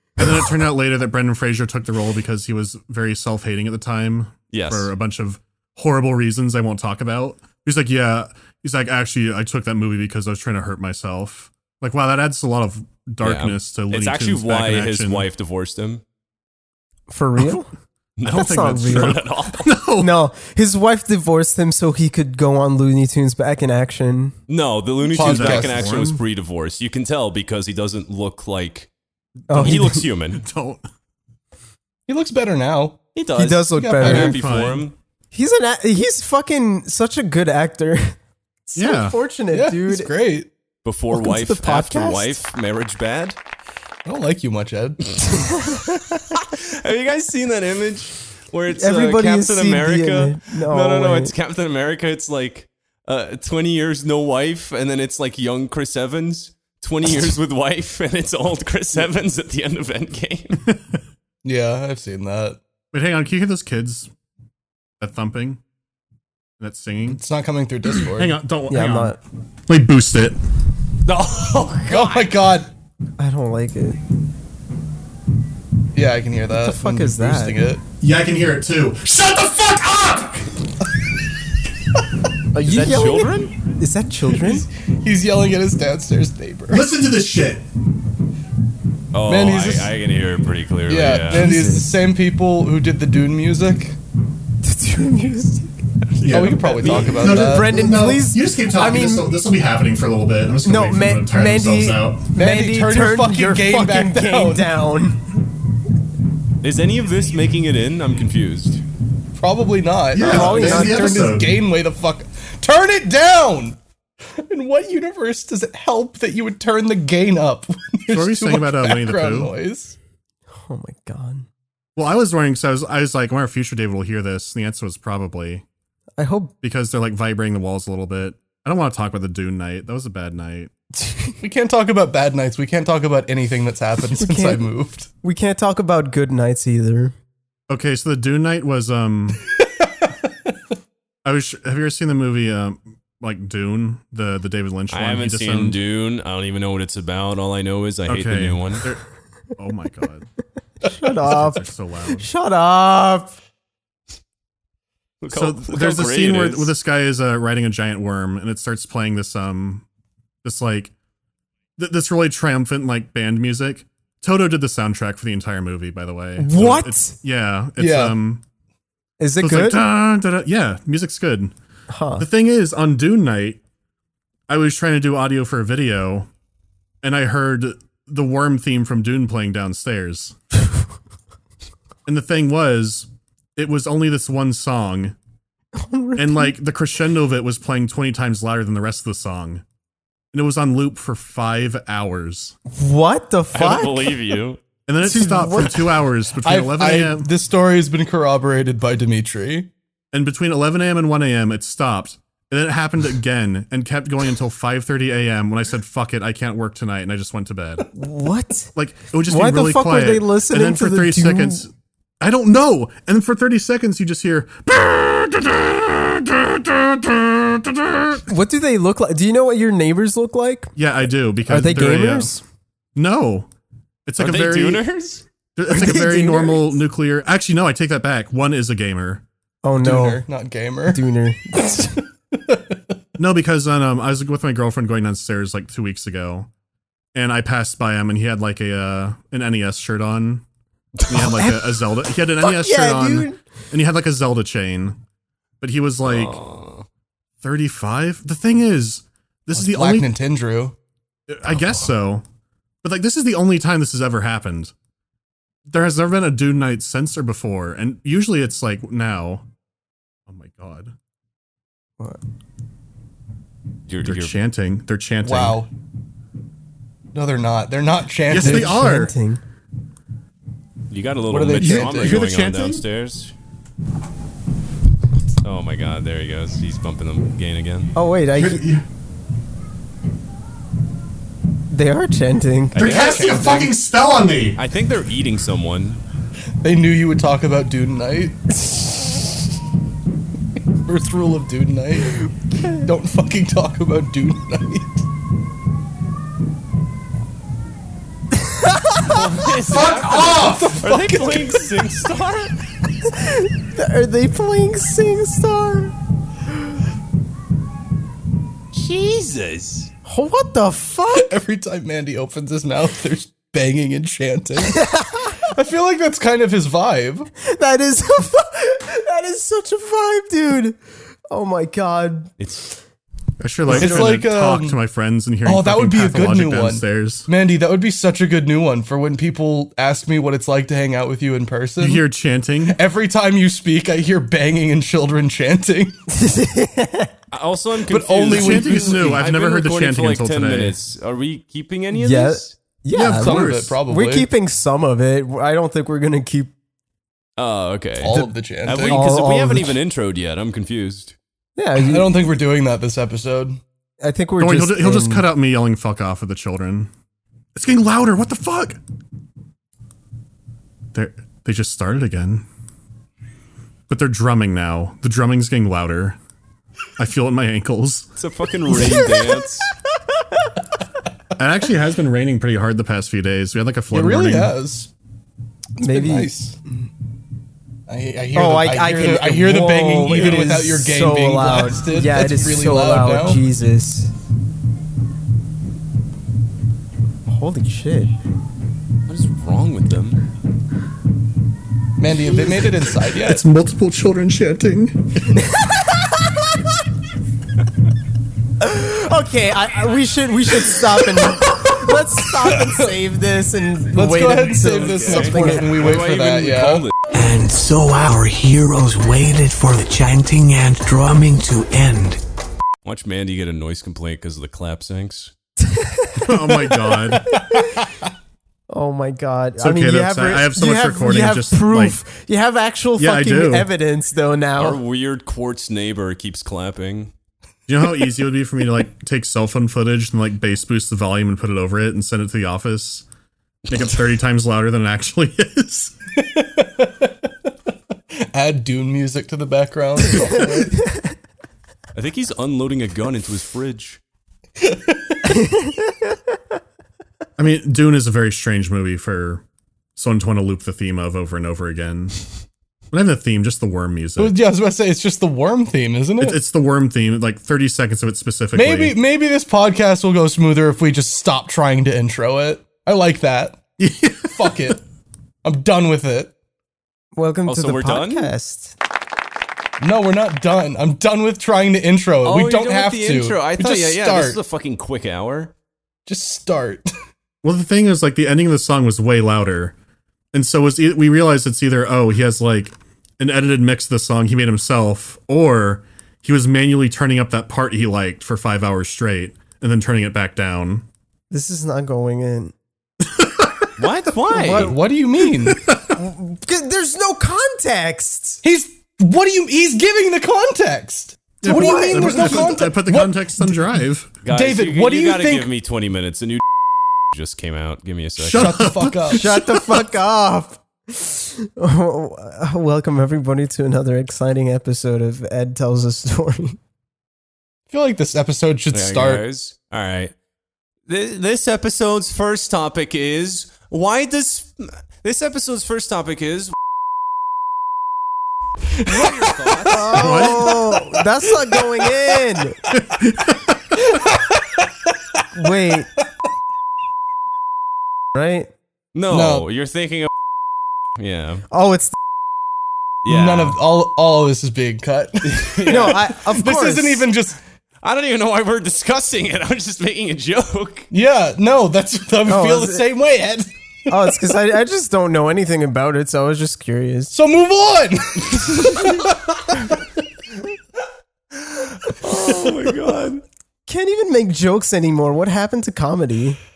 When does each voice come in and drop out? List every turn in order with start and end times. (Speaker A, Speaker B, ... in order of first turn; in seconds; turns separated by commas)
Speaker A: 0.2-15.3, Speaker B: 4.5-4.9, Speaker B: 13.2-16.0, Speaker C: 17.1-17.7, Speaker B: 18.2-19.7, Speaker C: 18.2-19.2, Speaker A: 18.3-20.2, Speaker C: 20.0-24.3, Speaker B: 24.5-28.9, Speaker D: 25.1-25.9, Speaker A: 25.2-26.2, Speaker C: 29.5-30.0, Speaker B: 29.5-30.4, Speaker A: 29.5-30.8, Speaker D: 32.1-33.0, Speaker B: 33.1-34.9, Speaker C: 33.4-34.4, Speaker D: 33.7-34.3, Speaker A: 34.0-34.9, Speaker C: 35.3-40.1, Speaker A: 38.8-39.2, Speaker D: 39.5-40.5, Speaker B: 40.8-43.4, Speaker C: 41.1-42.4, Speaker D: 44.0-45.1, Speaker B: 46.3-60.6, Speaker C: 48.7-51.3, Speaker D: 61.4-62.6, Speaker A: 62.9-64.1, Speaker A: 65.0-65.6, Speaker A: 66.6-67.2, Speaker D: 67.1-68.4, Speaker A: 67.9-69.2, Speaker C: 68.7-69.2, Speaker A: 69.7-70.4, Speaker B: 71.0-72.3, Speaker D: 71.9-72.7, Speaker C: 73.2-74.0, Speaker D: 75.9-77.8, Speaker C: 76.6-77.6, Speaker A: 78.0-80.5, Speaker C: 82.5-84.7, Speaker B: 82.6-83.5, Speaker D: 84.3-86.8, Speaker A: 86.7-87.6, Speaker B: 89.1-91.7, Speaker D: 89.2-89.9, Speaker D: 90.9-94.0, Speaker C: 91.3-91.9, Speaker C: 94.6-95.7, Speaker A: 96.2-102.3, Speaker B: 96.2-97.3, Speaker D: 96.3-97.8, Speaker C: 97.2-99.3, Speaker C: 100.6-105.2, Speaker D: 102.3-104.7, Speaker B: 106.6-108.8, Speaker D: 109.4-113.8, Speaker A: 110.1-111.6, Speaker C: 110.1-111.4, Speaker D: 114.3-120.0, Speaker A: 118.1-119.5, Speaker C: 120.5-121.5, Speaker A: 122.0-125.6, Speaker C: 126.2-126.5, Speaker A: 126.6-130.7, Speaker D: 131.4-135.1, Speaker C: 134.2-134.7, Speaker C: 135.2-137.1, Speaker A: 137.7-139.4, Speaker A: 141.2-145.8, Speaker B: 144.9-148.9, Speaker A: 148.1-149.0, Speaker A: 149.6-150.2, Speaker C: 150.9-153.3, Speaker A: 151.2-152.3, Speaker B: 155.2-156.7, Speaker A: 155.3-159.8, Speaker A: 160.4-160.9, Speaker A: 161.8-168.4, Speaker C: 166.4-167.1, Speaker D: 167.8-168.2, Speaker C: 169.2-169.9, Speaker A: 169.4-171.5, Speaker C: 171.9-172.2, Speaker A: 172.2-173.6, Speaker A: 174.5-176.3, Speaker A: 177.0-180.3, Speaker A: 182.1-185.1, Speaker C: 185.7-186.6, Speaker A: 186.2-189.6, Speaker A: 190.3-192.5, Speaker C: 192.7-194.2, Speaker B: 193.5-194.6, Speaker A: 194.9-197.3, Speaker C: 195.0-196.0, Speaker D: 196.4-199.7, Speaker A: 200.1-207.9, Speaker C: 207.9-208.7, Speaker A: 208.7-211.7, Speaker C: 209.2-211.7, Speaker A: 212.2-218.3, Speaker C: 218.3-220.7, Speaker A: 220.8-222.3, Speaker C: 221.4-222.4, Speaker A: 222.9-223.5, Speaker A: 224.1-224.8, Speaker B: 224.2-225.2, Speaker A: 225.6-229.2, Speaker C: 225.7-226.8, Speaker C: 229.6-230.2, Speaker D: 229.8-231.0, Speaker C: 230.9-232.0, Speaker D: 232.3-232.8, Speaker A: 233.2-236.5, Speaker A: 237.1-240.4, Speaker A: 241.0-245.0, Speaker C: 241.1-243.4, Speaker A: 245.6-246.4, Speaker B: 246.0-246.8, Speaker A: 247.4-250.1, Speaker D: 249.5-250.7, Speaker A: 251.3-252.2, Speaker A: 252.8-254.7, Speaker A: 255.7-259.4, Speaker A: 260.3-260.9, Speaker B: 263.9-264.3, Speaker A: 264.0-265.6, Speaker D: 265.2-265.7, Speaker D: 267.1-268.8, Speaker A: 268.3-269.1, Speaker C: 268.3-269.4, Speaker B: 270.9-273.3, Speaker D: 271.3-272.3, Speaker A: 271.6-272.8, Speaker B: 275.4-277.9, Speaker C: 277.9-278.6, Speaker A: 278.4-278.8, Speaker C: 281.7-282.8, Speaker B: 282.7-283.2, Speaker A: 282.8-284.6, Speaker D: 282.8-283.7, Speaker B: 284.6-286.0, Speaker D: 286.6-288.4, Speaker D: 290.8-294.9, Speaker C: 298.4-299.2, Speaker B: 299.0-302.5, Speaker A: 299.7-300.8, Speaker D: 300.2-301.7, Speaker C: 303.1-305.9, Speaker B: 308.7-309.9, Speaker C: 310.0-311.4, Speaker D: 311.1-314.8, Speaker C: 314.6-315.4, Speaker D: 315.4-317.3, Speaker C: 317.4-320.8, Speaker C: 321.3-322.3, Speaker B: 322.4-322.7, Speaker A: 323.4-327.3, Speaker D: 323.7-324.8, Speaker C: 323.7-324.1, Speaker D: 325.4-332.0, Speaker A: 331.8-332.8, Speaker D: 332.6-335.9, Speaker C: 336.1-337.1, Speaker B: 337.3-342.6, Speaker D: 337.9-339.2, Speaker A: 338.2-340.8, Speaker C: 341.9-346.5, Speaker A: 342.9-343.8, Speaker D: 343.0-344.3, Speaker B: 347.4-351.1, Speaker D: 348.0-349.1, Speaker C: 348.1-349.8, Speaker C: 351.6-352.1, Speaker D: 351.8-353.6, Speaker C: 354.0-355.3, Speaker A: 354.4-356.9, Speaker A: 357.5-358.8, Speaker A: 360.9-362.4, Speaker A: 363.9-366.2, Speaker A: 367.0-368.1, Speaker B: 368.1-369.7, Speaker C: 368.8-369.3, Speaker A: 371.4-374.6, Speaker D: 373.9-374.9, Speaker D: 375.8-376.6, Speaker C: 375.8-376.3, Speaker D: 377.9-383.4, Speaker C: 378.3-384.1, Speaker C: 387.3-388.1, Speaker B: 389.1-390.2, Speaker D: 392.0-393.4, Speaker A: 393.1-395.4, Speaker C: 395.4-396.4, Speaker C: 398.6-405.8, Speaker D: 402.5-402.9, Speaker D: 403.9-406.9, Speaker B: 404.7-406.9, Speaker E: 407.1-412.2, Speaker B: 412.8-415.3, Speaker C: 415.7-416.5, Speaker A: 416.2-417.4, Speaker D: 417.3-417.7, Speaker C: 418.7-424.8, Speaker A: 419.6-422.0, Speaker A: 423.0-423.7, Speaker B: 424.6-427.1, Speaker A: 427.7-433.1, Speaker A: 433.7-435.9, Speaker D: 436.2-437.3, Speaker D: 438.3-440.8, Speaker B: 441.9-444.0, Speaker D: 444.6-445.2, Speaker C: 445.4-445.8, Speaker A: 447.4-449.4, Speaker A: 449.9-452.2, Speaker A: 452.9-454.4, Speaker D: 454.2-456.4, Speaker A: 456.2-459.0, Speaker D: 458.5-463.6, Speaker A: 463.8-464.8, Speaker D: 464.3-464.8, Speaker D: 465.4-466.3, Speaker C: 467.1-468.8, Speaker B: 467.4-468.3, Speaker D: 469.8-474.4, Speaker B: 472.2-475.5, Speaker D: 476.1-476.9, Speaker A: 477.4-479.7, Speaker A: 480.3-490.8, Speaker C: 491.3-492.5, Speaker A: 493.1-493.7, Speaker B: 493.8-494.7, Speaker C: 494.3-494.8, Speaker D: 494.3-495.6, Speaker A: 495.4-495.9, Speaker C: 495.9-498.4, Speaker D: 498.4-503.6, Speaker A: 501.4-504.2, Speaker C: 501.4-502.7, Speaker B: 504.2-506.4, Speaker D: 504.3-505.5, Speaker B: 507.1-508.6, Speaker A: 508.2-509.8, Speaker D: 508.3-509.3, Speaker C: 509.1-516.6, Speaker D: 517.7-519.2, Speaker B: 518.7-520.1, Speaker B: 520.9-526.5, Speaker D: 528.8-529.1, Speaker B: 528.8-530.3, Speaker C: 529.7-532.6, Speaker A: 529.9-530.5, Speaker D: 530.5-530.9, Speaker A: 532.7-533.6, Speaker D: 533.9-535.2, Speaker C: 535.4-535.9, Speaker C: 538.1-538.5, Speaker B: 538.9-540.1, Speaker D: 539.1-539.5, Speaker B: 541.0-541.4, Speaker C: 541.5-541.9, Speaker B: 543.0-543.6, Speaker D: 543.0-547.4, Speaker B: 545.2-546.0, Speaker C: 545.7-547.1, Speaker B: 547.8-550.9, Speaker D: 550.9-553.9, Speaker C: 552.2-552.8, Speaker C: 553.9-557.1, Speaker D: 557.1-559.1, Speaker B: 561.5-563.2, Speaker C: 563.7-566.4